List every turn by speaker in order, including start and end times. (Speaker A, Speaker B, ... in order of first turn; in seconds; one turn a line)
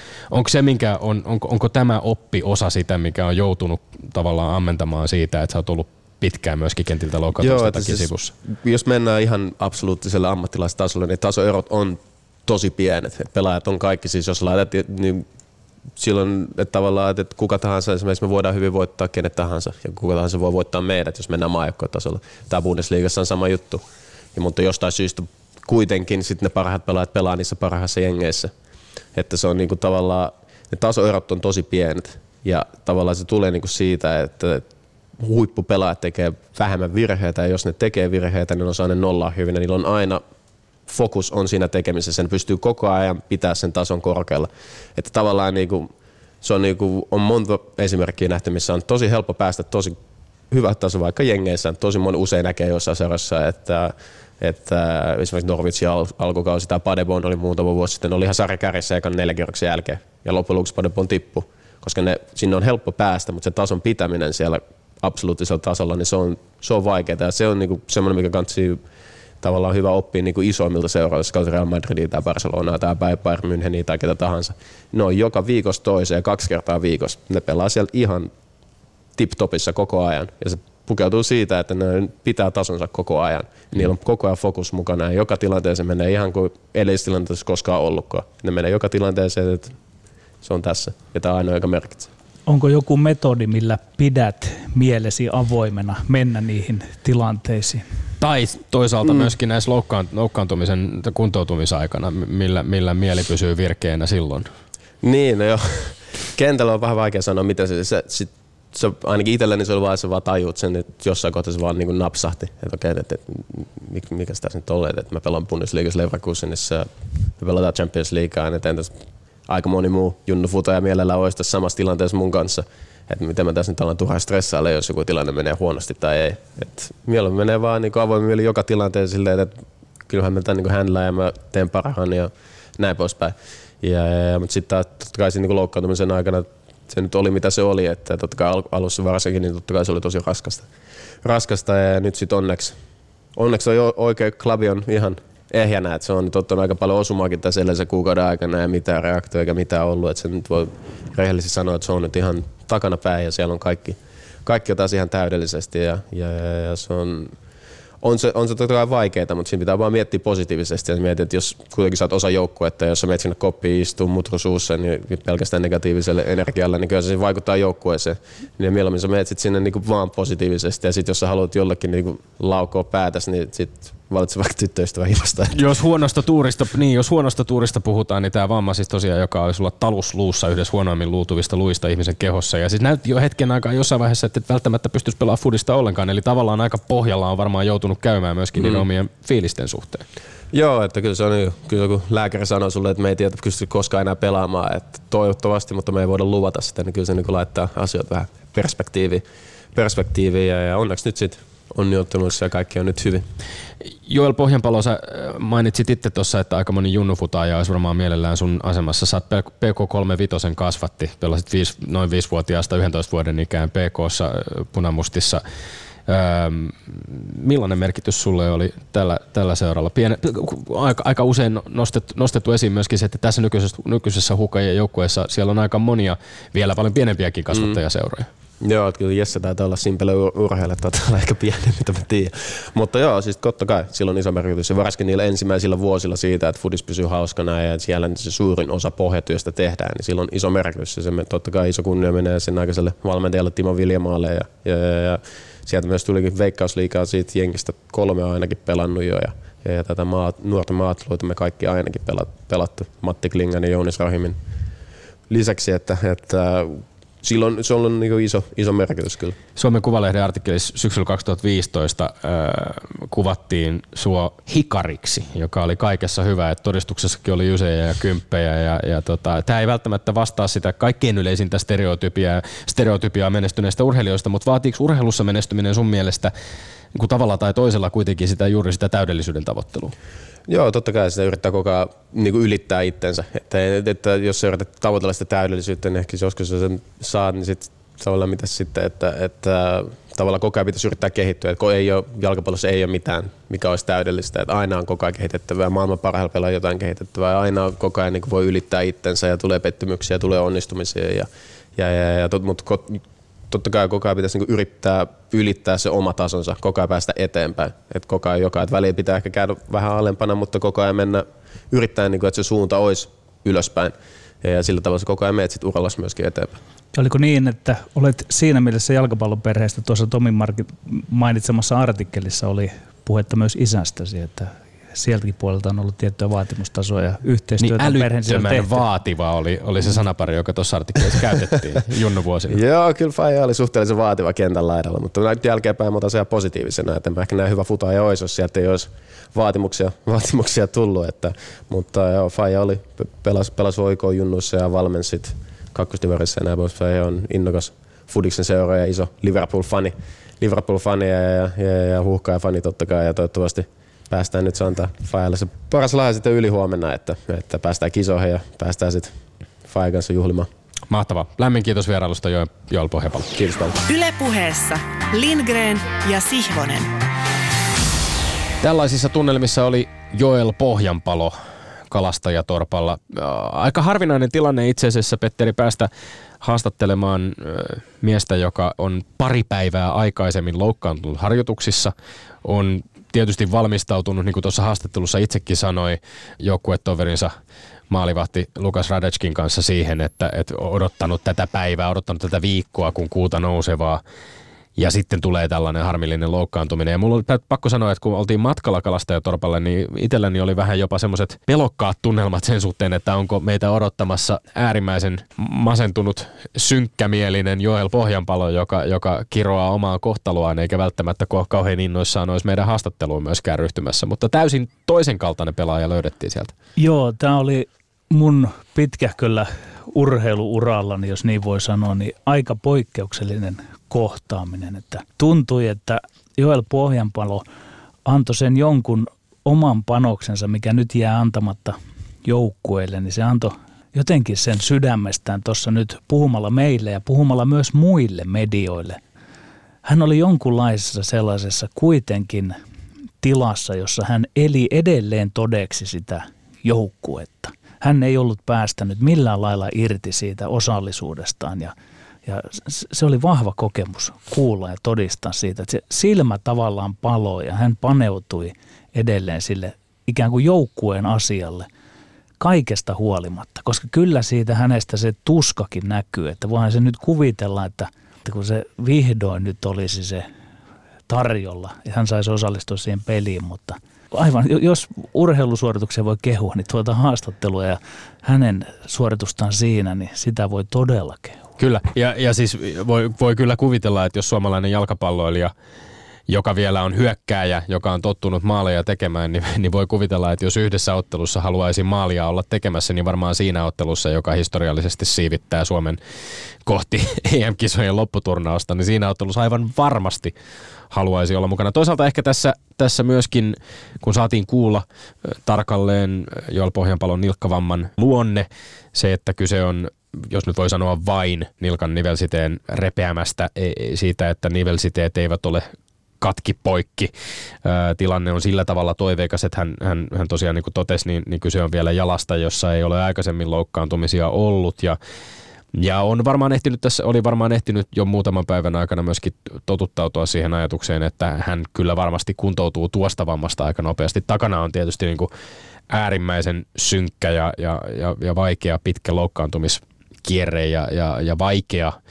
Speaker A: 0.3-8.3
Speaker B: 7.4-15.2
Speaker B: 15.9-28.5
Speaker B: 29.1-34.6
Speaker B: 35.2-40.2
Speaker B: 40.9-45.9
Speaker B: 46.4-50.0
Speaker B: 50.5-68.8
Speaker B: 69.4-78.3
Speaker B: 79.2-89.8
Speaker B: 90.4-92.1
Speaker C: 92.5-97.8
Speaker A: 98.2-104.5
Speaker B: 105.0-118.9
Speaker B: 119.5-140.7
Speaker B: 141.2-142.8
Speaker B: 143.3-157.3
Speaker B: 158.0-175.6
Speaker A: 175.5-190.0
Speaker B: 188.6-188.8
Speaker B: 190.5-203.2
Speaker A: 204.1-215.4
Speaker A: 216.1-228.3
Speaker B: 227.5-227.8
Speaker B: 228.6-254.4
Speaker B: 255.3-259.4
Speaker A: 259.6-276.3
Speaker A: 276.9-279.9
Speaker B: 280.5-316.6
Speaker C: 316.9-328.8
Speaker A: 327.6-332.6
Speaker B: 332.5-360.5
Speaker A: 360.9-363.3
Speaker B: 363.4-363.8
Speaker D: 363.9-366.9
Speaker A: 368.6-371.4
Speaker A: 371.9-375.9
Speaker A: 376.4-387.3
Speaker A: 387.9-394.0
Speaker A: 394.8-416.5
Speaker C: 416.8-427.4
Speaker C: 428.1-439.0
Speaker C: 439.9-442.6
Speaker C: 443.2-451.7
Speaker C: 452.2-461.7
Speaker C: 462.4-470.2
Speaker C: 471.1-481.4
Speaker A: 481.6-485.5
Speaker A: 486.3-496.0
Speaker A: 496.6-500.3
Speaker A: 500.9-515.7
Speaker A: 516.2-517.1
Speaker A: 517.6-525.0
Speaker A: 525.7-535.3
Speaker A: 535.9-542.0